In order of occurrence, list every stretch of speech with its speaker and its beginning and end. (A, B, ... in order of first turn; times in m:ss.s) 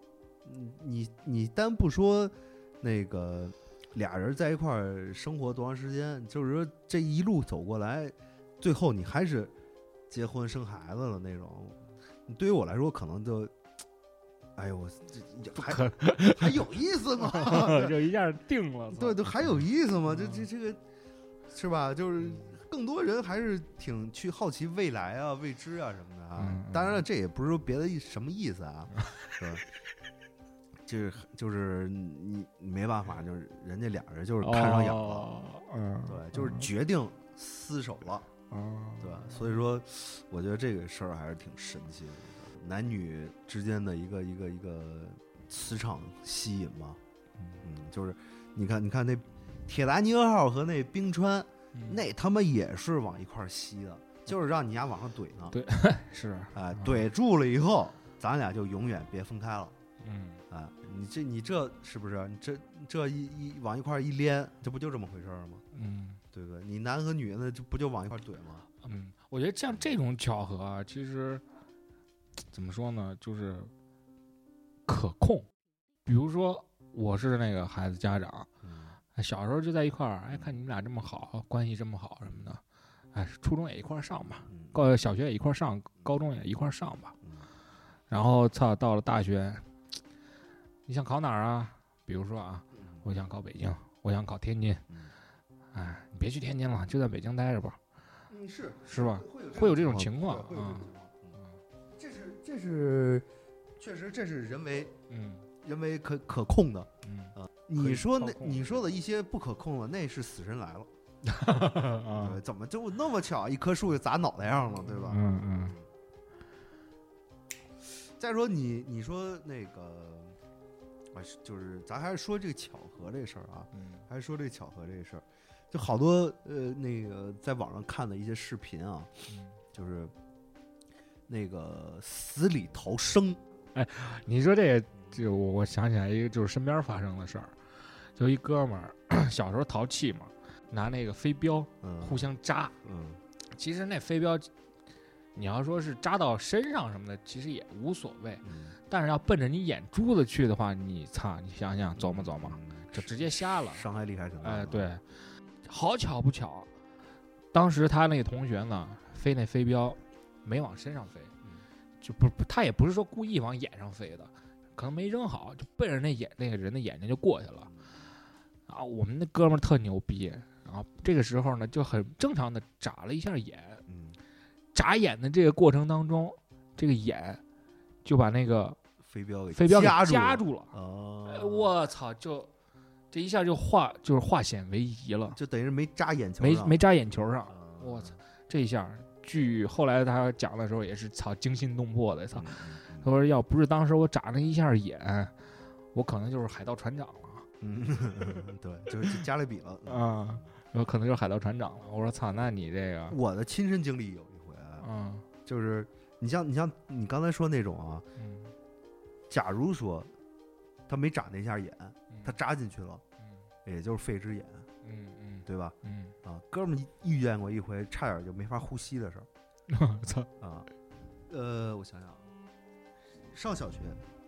0:00.4-0:09.5 A
0:10.1-0:13.5 A
0:14.6-0:18.0 A
0:15.6-0:20.4 B
0:18.9-0:20.8 A
0:21.5-0:29.6 A
0:22.3-0:22.6 B
0:26.4-0:27.0 B
0:29.0-0:29.4 B
0:30.9-0:35.3 A
0:34.4-0:36.7 B
0:36.1-0:38.3 A
0:38.5-0:39.6 B
0:39.0-0:47.0 A
0:47.6-0:55.6 A
0:51.7-0:52.0 B
0:55.5-0:57.0 B
0:56.5-0:59.8 A
1:00.0-1:00.4 B
1:00.5-1:05.6 A
1:05.7-1:06.2 B
1:06.3-1:08.7 A
1:08.8-1:11.4 B
1:12.5-1:13.7 B
1:14.9-1:15.5 B
1:16.0-1:18.5 B
1:18.6-1:19.0 A
1:19.2-1:22.6 B
1:23.1-1:27.2 B
1:24.5-1:24.8 A
1:27.2-1:27.5 A
1:28.1-1:29.7 B
1:30.9-1:34.9 B
1:32.8-1:33.0 A
1:34.9-1:35.1 A
1:35.7-1:37.8 B
1:38.3-1:41.4 A
1:38.9-1:41.6 B
1:41.9-1:43.3 A
1:43.8-1:44.9 A
1:45.1-1:45.5 B
1:45.6-1:50.9 A
1:47.0-1:48.8 B
1:51.2-1:52.4 B
1:51.6-1:55.9 A
1:54.8-1:55.8 B
1:57.9-2:00.4 A
2:01.1-2:09.1 A
2:03.7-2:04.0 B
2:09.3-2:09.6 B
2:09.7-2:10.1 A
2:11.3-2:13.4 A
2:13.7-2:22.8 B
2:21.8-2:22.3 A
2:22.8-2:23.2 A
2:23.5-2:24.5 B
2:25.4-2:33.9 B
2:28.4-2:28.8 A
2:32.0-2:34.9 A
2:34.4-2:35.0 B
2:35.6-2:36.7 B
2:37.5-2:41.3 B
2:42.0-2:47.7 B
2:47.7-2:47.9 A
2:48.7-2:53.8 B
2:53.9-2:54.2 A
2:54.7-2:57.4 B
2:58.0-2:58.8 B
2:59.1-3:01.8 A
2:59.5-3:00.7 B
3:01.2-3:02.5 B
3:03.1-3:05.4 B
3:05.3-3:06.8 A
3:06.4-3:15.4 B
3:07.5-3:08.2 A
3:12.3-3:13.1 A
3:15.9-3:17.5 B
3:17.6-3:20.5 A
3:19.9-3:23.2 B
3:23.1-3:24.9 A
3:24.8-3:25.3 B
3:25.5-3:28.1 A
3:28.2-3:28.5 B
3:29.3-3:30.1 A
3:30.9-3:33.0 A
3:32.1-3:32.4 B
3:33.6-3:34.7 A
3:34.8-3:36.2 B
3:35.5-3:39.3 A
3:39.7-3:40.3 B
3:40.4-3:40.7 A
3:41.3-3:42.3 A
3:43.2-3:44.0 A